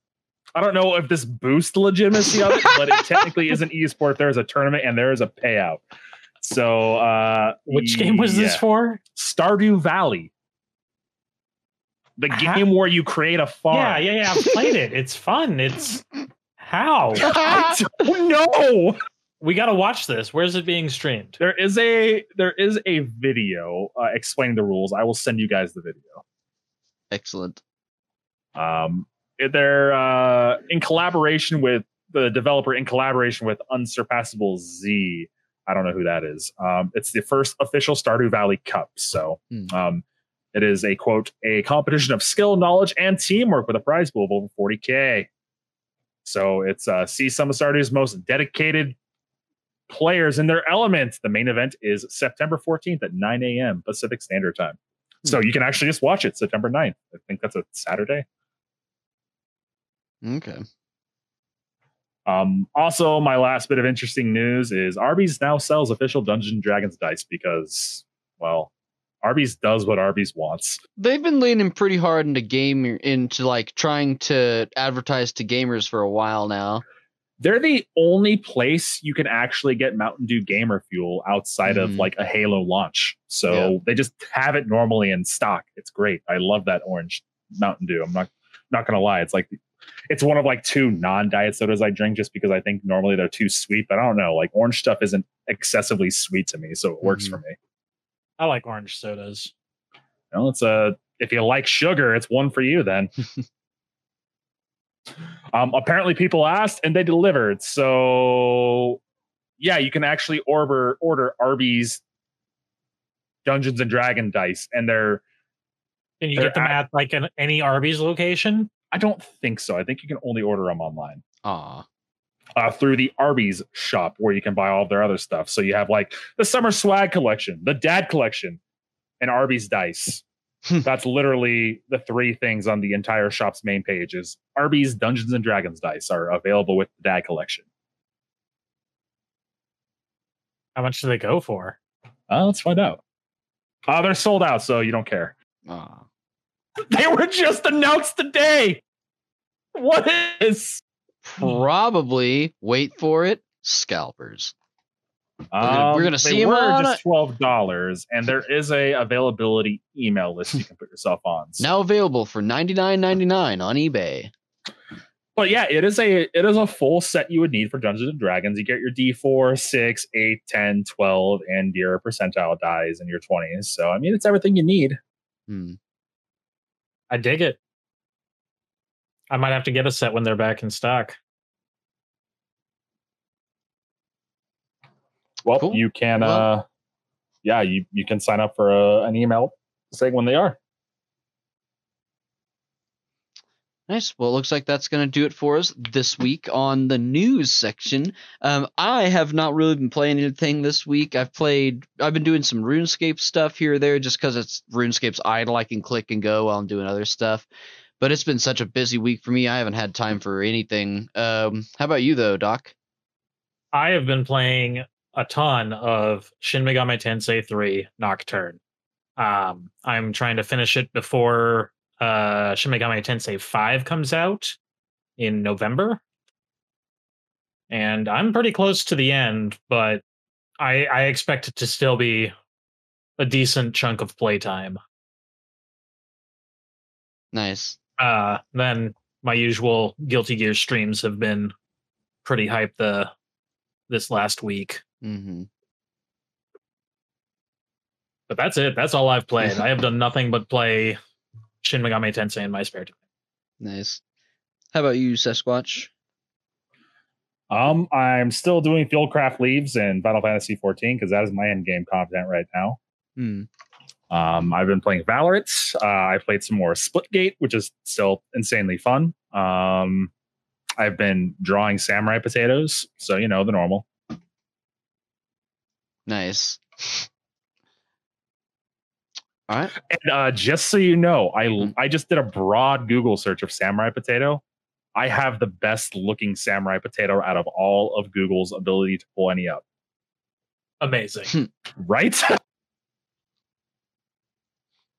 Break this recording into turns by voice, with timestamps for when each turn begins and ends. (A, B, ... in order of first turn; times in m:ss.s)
0:00.6-0:05.8 A
0:02.3-0:03.2 B
0:06.4-0:10.3 A
0:07.7-0:09.0 C
0:12.2-0:14.0 A
0:12.3-0:12.7 C
0:13.7-0:16.1 C
0:16.6-0:17.4 C
0:17.2-0:19.0 A
0:17.2-0:17.8 B
0:19.4-0:21.4 C
0:21.4-0:26.2 A
0:27.1-0:27.6 B
0:28.6-0:45.3 A
0:46.2-0:49.0 A
0:49.9-0:58.2 A
1:00.2-1:00.6 B
1:02.3-1:08.7 A
1:09.2-1:10.8 A
1:11.0-1:16.8 B
1:17.4-1:29.6 A
1:21.7-1:22.1 B
1:30.1-1:37.6 A
1:37.0-1:37.4 B
1:38.4-1:39.5 C
1:40.3-1:43.1 A
1:45.5-1:49.0 A
1:49.6-1:52.0 A
1:53.4-1:55.2 A
1:56.2-1:58.7 C
1:56.4-1:56.8 A
1:58.9-2:01.2 A
2:01.4-2:01.8 B
2:02.6-2:08.6 A
2:09.2-2:10.2 A
2:10.8-2:17.7 A
2:20.8-2:21.8 C
2:22.3-2:23.0 A
2:23.9-2:25.3 A
2:25.7-2:26.1 B
2:26.9-2:28.8 A
2:29.8-2:30.8 A
2:31.2-2:34.5 B
2:35.5-2:41.7 A
2:35.6-2:37.0 B
2:41.6-2:44.3 B
2:45.4-2:55.0 A
2:55.5-2:55.8 B
2:57.1-2:57.6 C
2:59.3-3:01.2 C
3:05.4-3:06.6 A
3:05.6-3:06.5 B
3:07.4-3:10.6 A
3:13.9-3:27.5 B
3:28.0-3:32.7 B
3:33.7-3:38.6 C
3:39.2-3:44.6 C
3:45.2-3:46.0 C
3:47.7-3:50.0 C
3:50.6-3:52.3 C
3:53.2-3:54.8 C
3:57.3-3:57.8 B
3:58.0-4:01.5 C
4:02.2-4:03.1 C
4:03.9-4:04.8 C
4:05.0-4:05.5 B
4:08.3-4:11.0 C
4:11.6-4:13.0 C
4:13.6-4:14.0 B
4:14.7-4:15.9 B
4:17.5-4:22.8 A
4:23.2-4:23.5 B
4:24.1-4:30.1 A
4:30.8-4:33.9 A
4:36.1-4:37.1 B
4:39.5-4:39.7 B
4:39.8-4:44.4 A
4:45.0-4:49.6 A
4:50.8-4:51.3 C
4:51.8-4:52.4 A